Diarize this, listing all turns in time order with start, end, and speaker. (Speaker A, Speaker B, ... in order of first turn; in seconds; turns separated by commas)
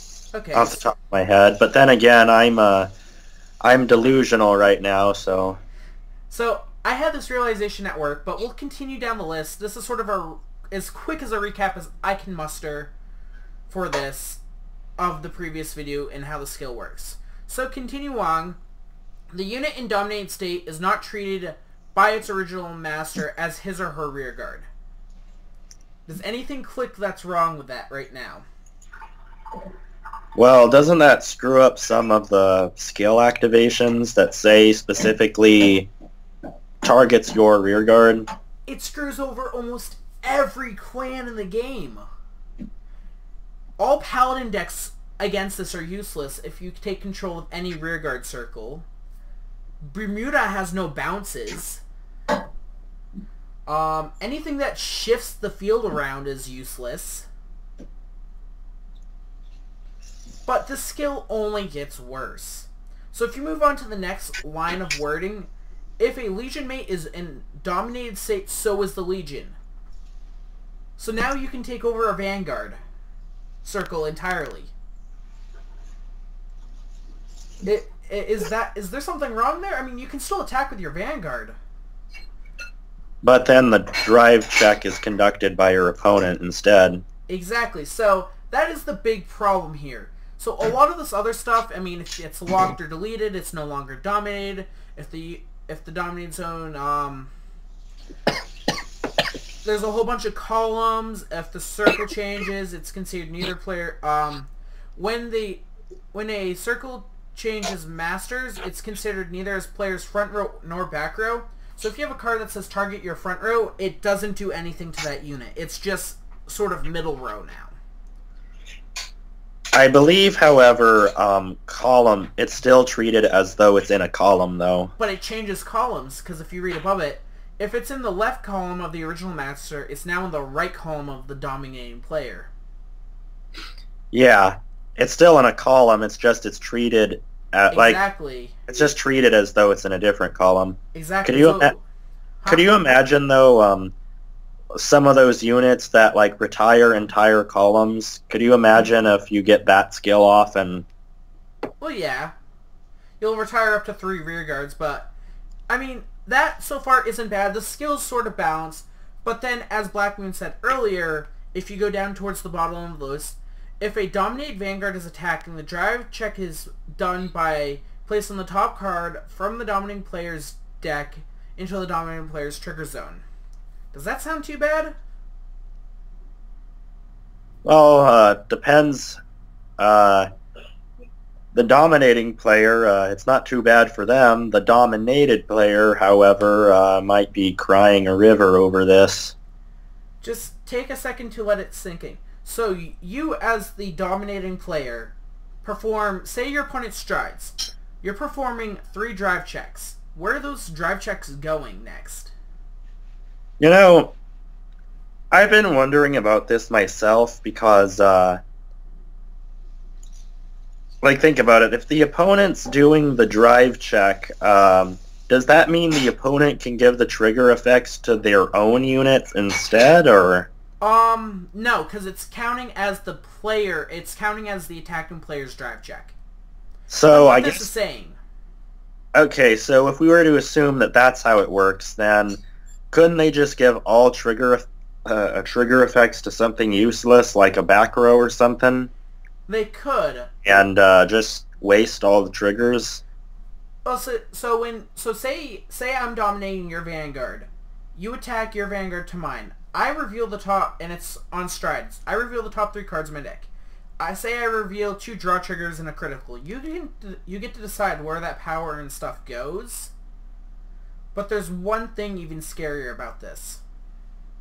Speaker A: 0.3-0.9, Speaker B: 0.5-2.9, Speaker B: 3.6-5.6, Speaker A: 6.3-12.9, Speaker A: 13.7-14.4, Speaker A: 15.0-18.6, Speaker A: 19.3-24.7, Speaker A: 26.1-28.4, Speaker B: 30.4-35.9, Speaker B: 36.8-38.3, Speaker A: 38.7-42.0, Speaker A: 43.8-48.9, Speaker A: 49.8-51.8, Speaker A: 53.7-57.3, Speaker A: 60.5-69.6, Speaker A: 71.0-72.8, Speaker A: 73.6-74.7, Speaker A: 77.6-81.5, Speaker B: 83.2-87.0, Speaker A: 87.3-97.3, Speaker A: 99.6-117.7, Speaker B: 119.7-124.9, Speaker A: 125.0-132.5, Speaker B: 134.1-138.0, Speaker A: 137.7-138.5, Speaker B: 138.7-141.7, Speaker A: 140.9-141.8, Speaker A: 142.4-142.8, Speaker B: 142.5-143.9, Speaker B: 144.8-150.8, Speaker A: 151.8-152.3, Speaker A: 153.2-155.1, Speaker A: 155.7-173.2, Speaker A: 173.9-174.9, Speaker B: 177.6-179.2, Speaker B: 179.8-180.3, Speaker B: 181.5-189.3, Speaker A: 190.2-202.3, Speaker B: 203.6-204.1, Speaker B: 205.3-208.4, Speaker B: 211.0-220.5, Speaker A: 220.8-226.1, Speaker B: 226.9-227.7, Speaker A: 227.1-228.2, Speaker B: 229.1-232.4, Speaker B: 232.9-238.9, Speaker A: 239.5-240.3, Speaker B: 240.4-243.0, Speaker A: 243.8-259.9, Speaker A: 261.1-263.6